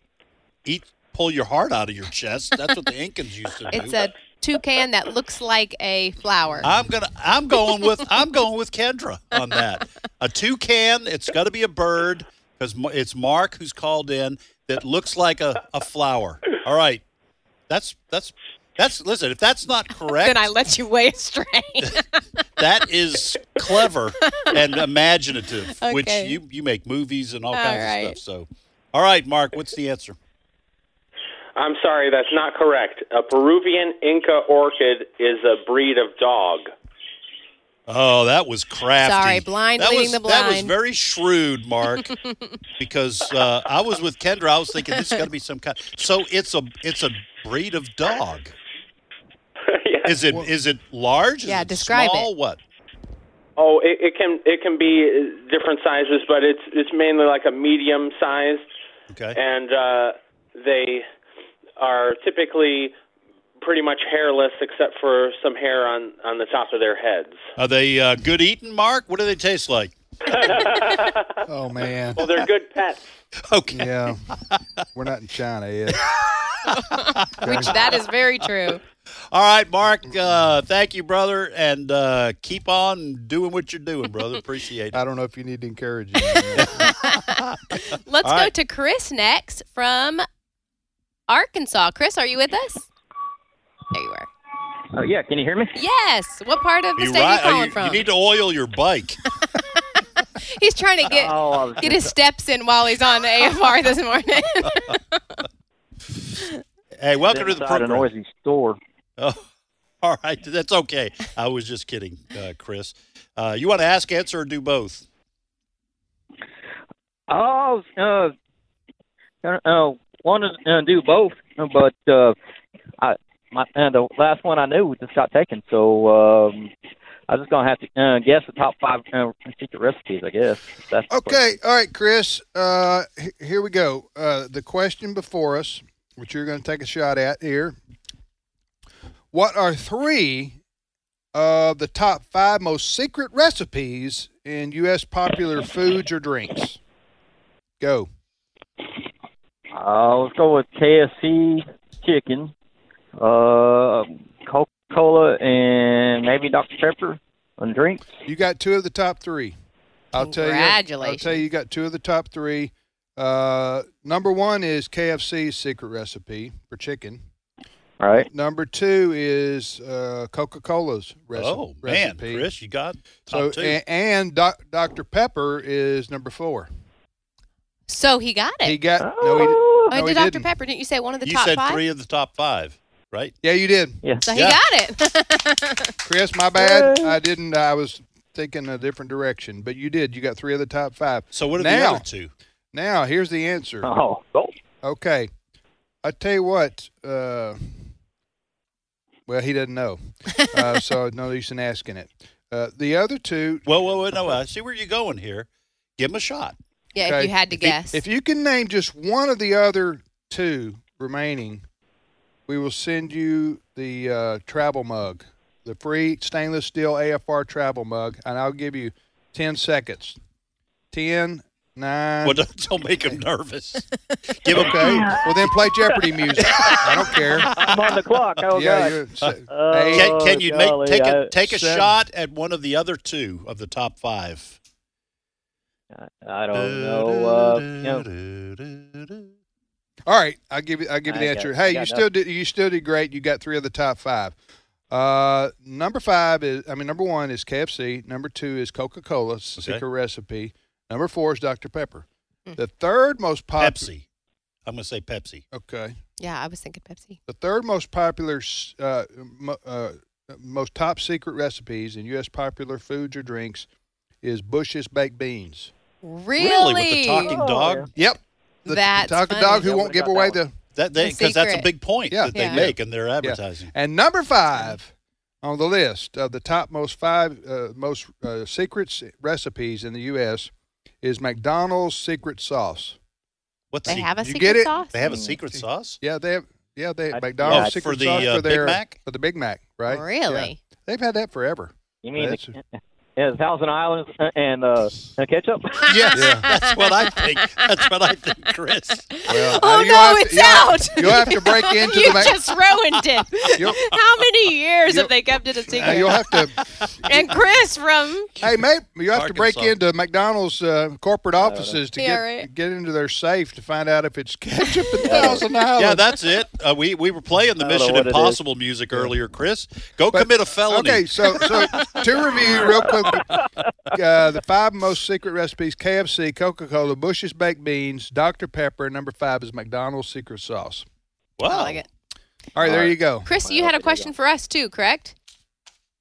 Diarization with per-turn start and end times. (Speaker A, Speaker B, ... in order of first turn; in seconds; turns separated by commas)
Speaker A: 0.6-4.0, Speaker B: 3.7-6.7, Speaker A: 6.6-17.0, Speaker A: 17.7-20.4, Speaker B: 20.1-22.1, Speaker A: 22.6-30.1, Speaker B: 24.3-24.5, Speaker B: 25.8-26.4, Speaker B: 27.5-28.2, Speaker C: 31.6-36.7, Speaker A: 37.9-42.1, Speaker B: 39.0-40.7, Speaker B: 42.0-42.6, Speaker A: 42.8-48.5, Speaker C: 49.7-50.2, Speaker A: 50.0-52.6, Speaker B: 51.5-52.3, Speaker C: 53.6-58.6, Speaker A: 59.1-59.4, Speaker C: 59.3-61.0, Speaker C: 61.8-62.9, Speaker C: 63.6-67.4, Speaker A: 67.6-69.9, Speaker C: 70.3-71.4, Speaker D: 71.5-72.3, Speaker C: 72.2-73.1, Speaker A: 73.5-74.6, Speaker D: 73.7-74.3, Speaker D: 74.9-76.0, Speaker B: 76.7-78.8, Speaker A: 77.1-77.9, Speaker D: 77.4-77.7, Speaker A: 79.3-85.0, Speaker D: 84.9-86.9, Speaker B: 86.2-87.4, Speaker A: 86.6-87.6, Speaker B: 88.0-90.3, Speaker A: 88.2-88.5, Speaker B: 91.3-92.9, Speaker B: 93.9-94.3, Speaker E: 94.9-95.7, Speaker B: 95.7-98.0, Speaker A: 97.0-99.2, Speaker B: 100.5-105.2, Speaker E: 101.1-102.1, Speaker A: 107.0-108.1, Speaker E: 107.2-108.8, Speaker A: 110.0-115.0, Speaker E: 117.3-118.3, Speaker E: 119.4-122.3, Speaker E: 123.0-126.7, Speaker E: 127.3-131.4, Speaker D: 131.1-137.8, Speaker D: 139.3-140.6, Speaker D: 141.3-146.8, Speaker D: 147.8-148.1, Speaker E: 149.7-152.5, Speaker E: 153.2-158.0, Speaker D: 158.3-159.6, Speaker D: 160.1-167.2, Speaker B: 160.2-161.4, Speaker E: 168.0-168.3, Speaker D: 168.3-172.5, Speaker A: 171.3-173.8, Speaker D: 173.3-176.7, Speaker B: 177.9-178.8, Speaker D: 178.6-180.5, Speaker E: 179.0-179.9, Speaker B: 179.9-181.8, Speaker A: 181.2-183.3, Speaker D: 183.4-184.0, Speaker B: 184.2-185.9, Speaker D: 186.0-192.1, Speaker E: 186.6-186.9, Speaker A: 191.3-192.3, Speaker D: 192.7-193.9, Speaker E: 193.8-194.5, Speaker D: 194.8-195.3, Speaker D: 196.0-197.8, Speaker D: 199.3-200.0, Speaker D: 200.5-203.6, Speaker A: 203.7-205.5, Speaker A: 206.0-206.6, Speaker B: 206.9-208.0, Speaker D: 207.0-211.6, Speaker D: 212.5-220.2, Speaker D: 220.9-222.4, Speaker A: 222.2-223.9, Speaker A: 224.4-225.2, Speaker D: 224.6-227.5, Speaker A: 227.5-227.9, Speaker E: 227.5-231.3, Speaker D: 228.5-230.1, Speaker A: 229.9-234.6, Speaker D: 231.4-231.9, Speaker E: 235.9-238.1, Speaker A: 236.5-239.3, Speaker D: 240.1-244.3, Speaker E: 241.1-242.0, Speaker D: 244.9-252.1, Speaker D: 252.6-253.9, Speaker A: 253.6-254.0, Speaker A: 254.7-255.4, Speaker D: 255.5-255.9, Speaker B: 256.2-257.2, Speaker D: 257.3-263.7, Speaker D: 264.2-265.7, Speaker B: 266.0-267.4, Speaker A: 266.4-267.9, Speaker E: 267.2-267.9, Speaker D: 267.9-270.6, Speaker B: 268.6-269.8, Speaker E: 269.6-270.4, Speaker A: 270.7-273.7, Speaker B: 271.0-271.7, Speaker D: 272.1-280.5, Speaker B: 272.3-272.6, Speaker D: 281.0-283.0, Speaker A: 283.7-284.1, Speaker B: 283.9-285.0, Speaker D: 284.2-284.7, Speaker A: 284.9-286.0, Speaker E: 285.0-285.3, Speaker D: 286.0-292.6, Speaker E: 287.1-288.2, Speaker A: 287.5-289.0, Speaker B: 289.9-290.6, Speaker E: 292.0-292.6, Speaker E: 293.2-295.9, Speaker A: 295.9-299.1, Speaker B: 296.1-296.9, Speaker D: 296.1-296.5, Speaker B: 299.2-306.3, Speaker D: 299.3-302.4, Speaker D: 305.7-306.6, Speaker B: 307.1-308.3, Speaker D: 308.4-316.0, Speaker A: 309.1-309.7, Speaker E: 311.4-311.8, Speaker B: 311.9-312.5, Speaker E: 315.0-315.4, Speaker A: 315.8-321.6, Speaker E: 317.6-318.4, Speaker D: 320.1-323.3, Speaker E: 322.5-323.4, Speaker D: 323.9-330.9, Speaker A: 331.4-331.8, Speaker B: 331.5-331.9, Speaker D: 332.6-333.3, Speaker E: 332.6-334.1, Speaker B: 332.7-335.1